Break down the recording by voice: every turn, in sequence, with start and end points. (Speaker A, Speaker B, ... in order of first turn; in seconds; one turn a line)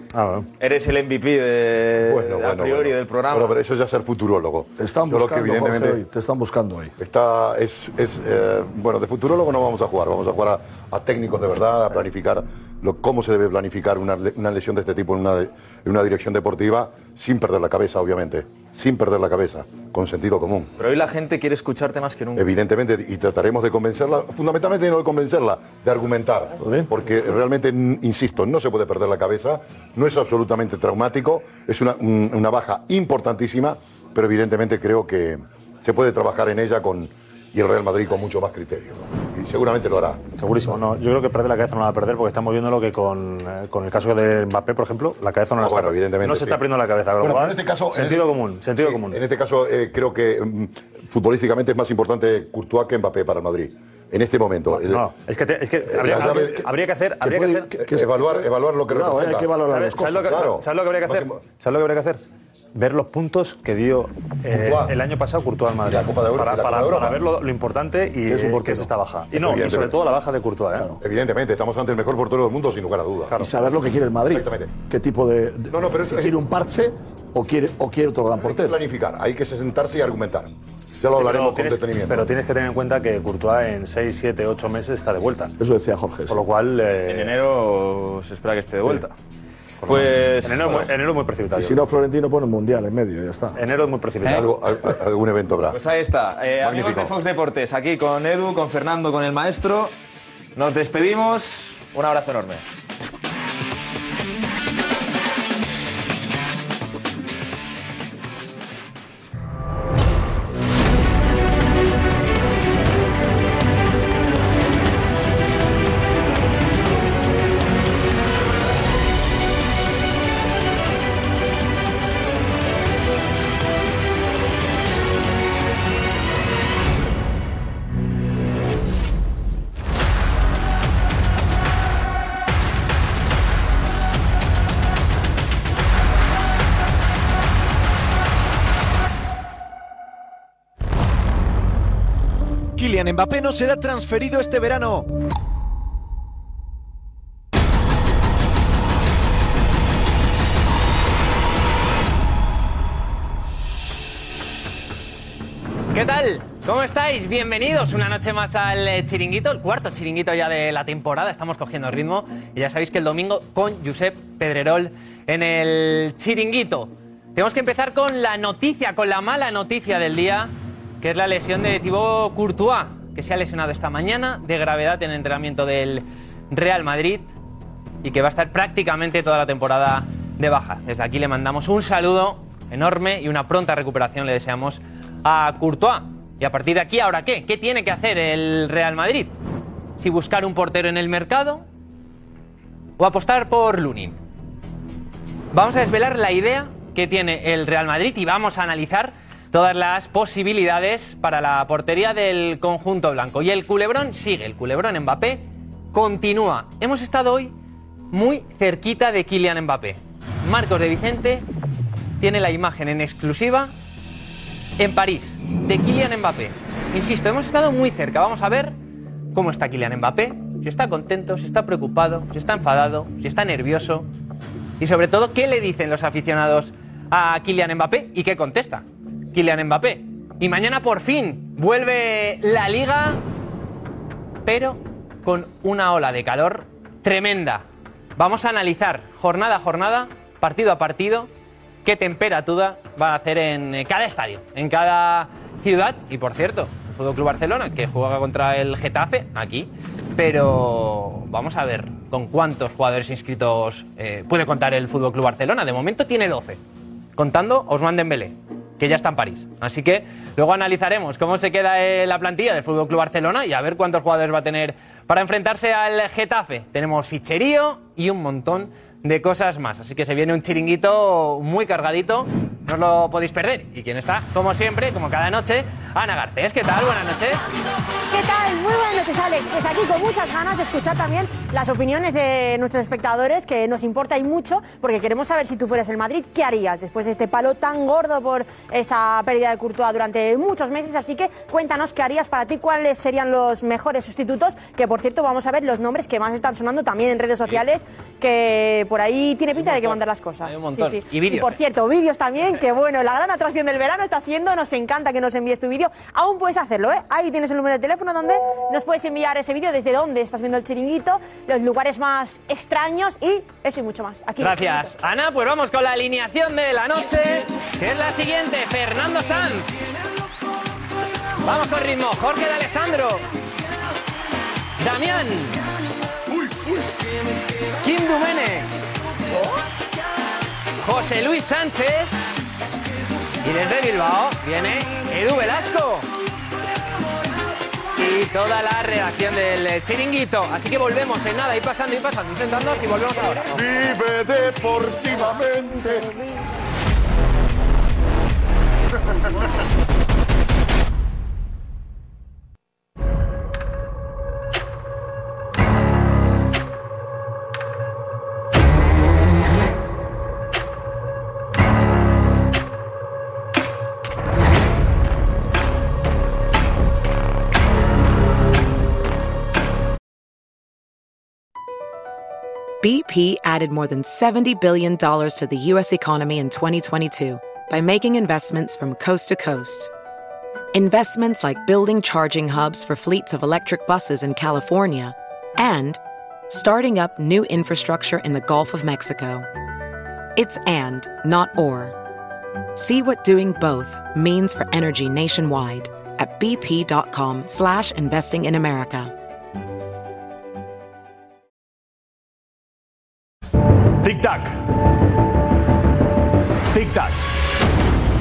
Speaker A: 0.1-0.5
Speaker B: 0.6-3.5
Speaker C: 2.0-6.0
Speaker D: 4.8-6.9
Speaker C: 7.0-20.7
Speaker B: 20.8-22.5
Speaker C: 22.4-40.2
Speaker A: 40.4-49.2
Speaker C: 45.6-46.6
Speaker C: 47.2-55.1
Speaker A: 54.7-57.8
Speaker C: 55.9-56.7
Speaker D: 56.1-56.6
Speaker D: 57.2-60.5
Speaker C: 57.8-61.4
Speaker A: 59.0-62.2
Speaker A: 62.7-71.0
Speaker C: 64.5-64.9
Speaker C: 65.8-67.2
Speaker D: 68.3-68.9
Speaker C: 69.3-70.0
Speaker C: 71.0-73.7
Speaker D: 73.4-78.8
Speaker C: 74.3-74.7
Speaker C: 75.7-76.3
Speaker C: 78.4-82.3
Speaker A: 81.1-85.5
Speaker D: 85.6-86.4
Speaker A: 86.3-87.3
Speaker B: 87.1-89.1
Speaker A: 89.8-91.8
Speaker B: 89.9-90.9
Speaker D: 91.5-93.5
Speaker A: 93.5-94.5
Speaker C: 94.2-95.8
Speaker B: 95.7-99.9
Speaker C: 96.6-97.1
Speaker B: 100.5-102.6
Speaker E: 142.8-145.1
Speaker F: 155.9-177.3
Speaker F: 178.0-189.3
Speaker F: 190.0-191.6
Speaker F: 193.0-194.2
Speaker F: 195.5-207.5
Speaker F: 208.1-211.4
Speaker F: 212.2-213.7
Speaker F: 214.8-218.8
Speaker F: 219.3-224.1
Speaker F: 224.8-233.2
Speaker F: 234.4-237.6
Speaker F: 238.2-241.3
Speaker F: 241.8-256.6
Speaker F: 257.2-277.5
Speaker G: 278.1-315.0
Speaker F: 299.5-301.6
Speaker F: 314.4-319.7
Speaker F: 321.4-323.3
Speaker F: 324.8-325.6
Speaker F: 327.8-328.7
Speaker F: 330.8-332.1
Speaker F: 333.4-336.1
Speaker F: 337.9-343.6
Speaker C: 343.5-346.1
Speaker H: 372.8-379.9
Speaker H: 380.7-389.5
Speaker H: 390.4-391.9
Speaker H: 392.7-399.1
Speaker A: 404.0-404.5
Speaker A: 406.7-407.1